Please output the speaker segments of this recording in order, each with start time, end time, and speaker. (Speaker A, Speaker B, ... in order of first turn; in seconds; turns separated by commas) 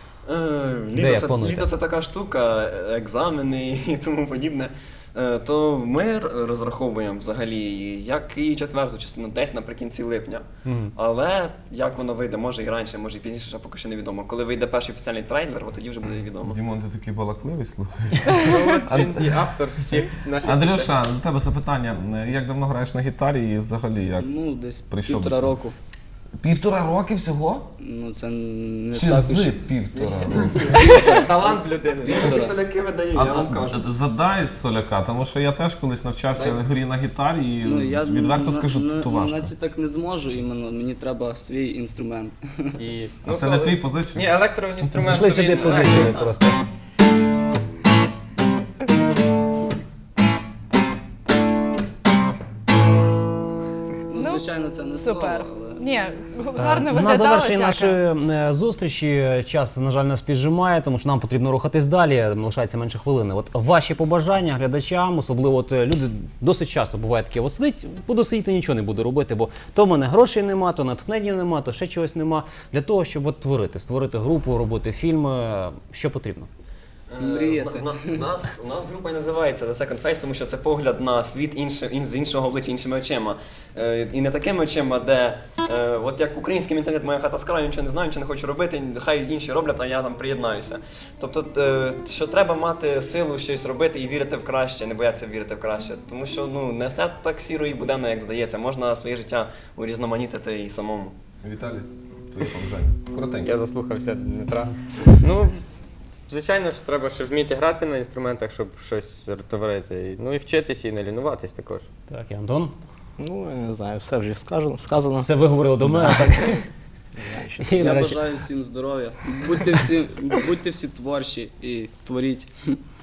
Speaker A: 0.2-16.6, Speaker B: 0.9-1.7, Speaker B: 10.6-10.9, Speaker C: 16.4-24.3, Speaker D: 18.4-20.9, Speaker E: 24.2-25.7, Speaker C: 24.8-25.6, Speaker C: 26.4-27.7, Speaker E: 27.8-31.6, Speaker C: 28.9-30.9, Speaker D: 31.1-32.4, Speaker A: 32.0-33.8, Speaker E: 32.1-32.5, Speaker C: 33.1-39.5, Speaker E: 36.3-36.6, Speaker E: 37.6-42.8, Speaker D: 42.8-46.2, Speaker C: 43.2-45.4, Speaker B: 45.0-46.6, Speaker E: 45.6-45.9, Speaker E: 54.1-55.9, Speaker F: 54.1-58.0, Speaker B: 56.5-76.5, Speaker A: 77.1-101.1, Speaker E: 77.2-78.2, Speaker C: 101.4-103.5, Speaker D: 103.4-105.5, Speaker D: 106.3-111.8, Speaker B: 112.1-112.7, Speaker G: 113.2-116.6, Speaker B: 115.2-116.5, Speaker G: 117.2-117.7, Speaker B: 117.6-118.2, Speaker E: 117.7-122.8